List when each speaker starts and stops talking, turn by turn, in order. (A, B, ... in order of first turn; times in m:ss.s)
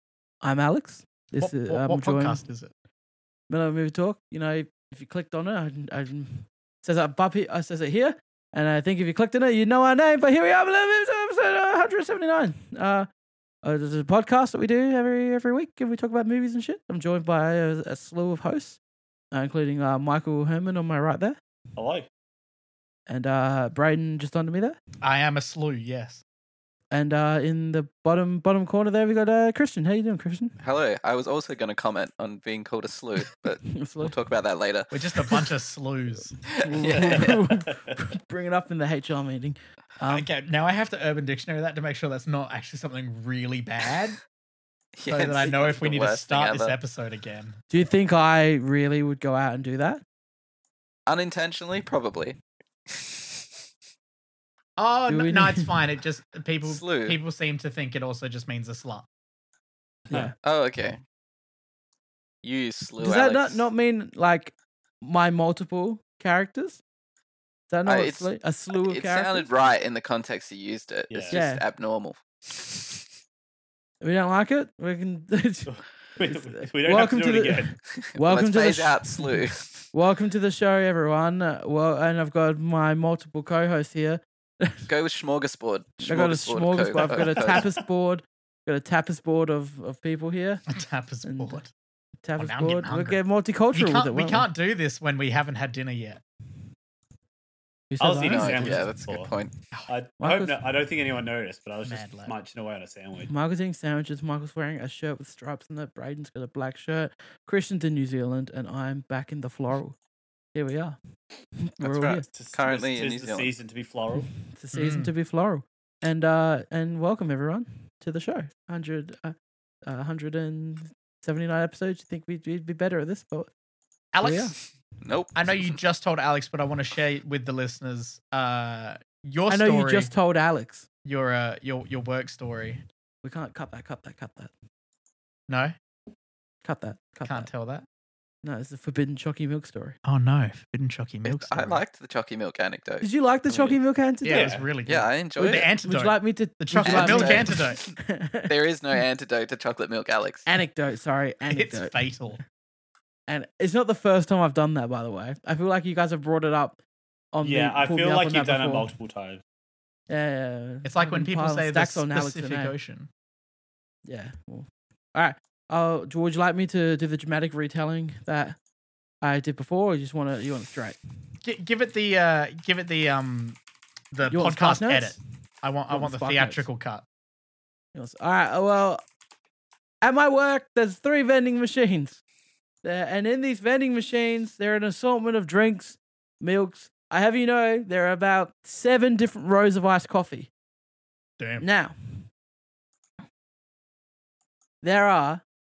0:00.4-0:02.4 A
0:01.4-0:02.7 B
0:03.5-0:13.1 A
0:13.6-0:18.8 A
0:19.3-0:21.4 A
0:21.8-0:22.1 C
0:23.1-0:24.8 A
0:25.0-0:26.2 B
0:26.9-0:30.6 A
0:30.6-0:35.4 D
0:33.7-0:34.1 A
0:34.9-0:36.4 B
0:36.5-0:37.4 D
0:36.6-0:40.3 A
0:40.1-0:44.2 B
0:45.0-0:46.8 D
0:45.1-0:47.6 B
0:47.7-0:50.0 A
0:51.1-0:53.4 D
0:54.8-0:59.0 B
0:55.1-0:55.8 A
0:56.6-0:57.2 D
1:00.1-1:00.3 A
1:00.4-1:01.0 D
1:02.4-1:03.6 D
1:03.0-1:06.8 A
1:07.7-1:09.5 A
1:07.8-1:13.0 D
1:11.1-1:11.4 C
1:11.3-1:11.6 A
1:14.0-1:15.7 A
1:15.7-1:17.7 C
1:16.3-1:19.4 A
1:17.9-1:19.8 D
1:19.9-1:24.9 A
1:24.9-1:27.6 D
1:26.0-1:30.6 A
1:26.9-1:27.8 C
1:30.7-1:31.7 B
1:31.2-1:31.6 A
1:32.2-1:34.5 A
1:32.4-1:33.2 B
1:33.7-1:36.2 B
1:37.9-1:39.0 A
1:38.0-1:39.3 C
1:38.2-1:39.5 D
1:39.9-1:43.3 C
1:40.2-1:40.6 A
1:41.8-1:42.3 B
1:43.3-1:50.0 A
1:50.5-1:51.0 A
1:51.6-1:52.2 A
1:51.8-1:53.5 D
1:52.3-1:54.3 C
1:54.2-2:03.5 A
1:54.7-1:55.1 B
2:04.1-2:04.5 B
2:04.2-2:04.5 A
2:05.0-2:05.8 D
2:05.3-2:10.1 B
2:09.5-2:10.8 A
2:11.0-2:12.8 B
2:13.2-2:14.5 A
2:15.5-2:15.8 B
2:16.6-2:17.5 A
2:17.2-2:17.8 B
2:18.4-2:20.0 A
2:20.0-2:21.8 B
2:21.2-2:23.8 D
2:23.0-2:24.5 A
2:24.2-2:27.8 B
2:24.3-2:24.7 C
2:24.8-2:25.7 D
2:25.8-2:28.5 A
2:26.8-2:27.9 D
2:28.5-2:30.5 D
2:30.5-2:32.0 A
2:31.5-2:32.4 B
2:33.3-2:36.8 A
2:37.3-2:38.9 A
2:37.4-2:39.4 C
2:40.1-2:42.7 A
2:40.8-2:43.1 B
2:44.0-2:48.6 A
2:49.2-2:51.0 A
2:51.4-2:53.6 B
2:54.1-2:57.0 B
2:54.3-2:55.2 A
2:55.9-2:56.7 A
2:57.9-2:59.0 A
3:00.0-3:02.2 A
3:02.8-3:10.5 A
3:11.4-3:11.6 B
3:11.6-3:12.3 A
3:14.8-3:15.4 A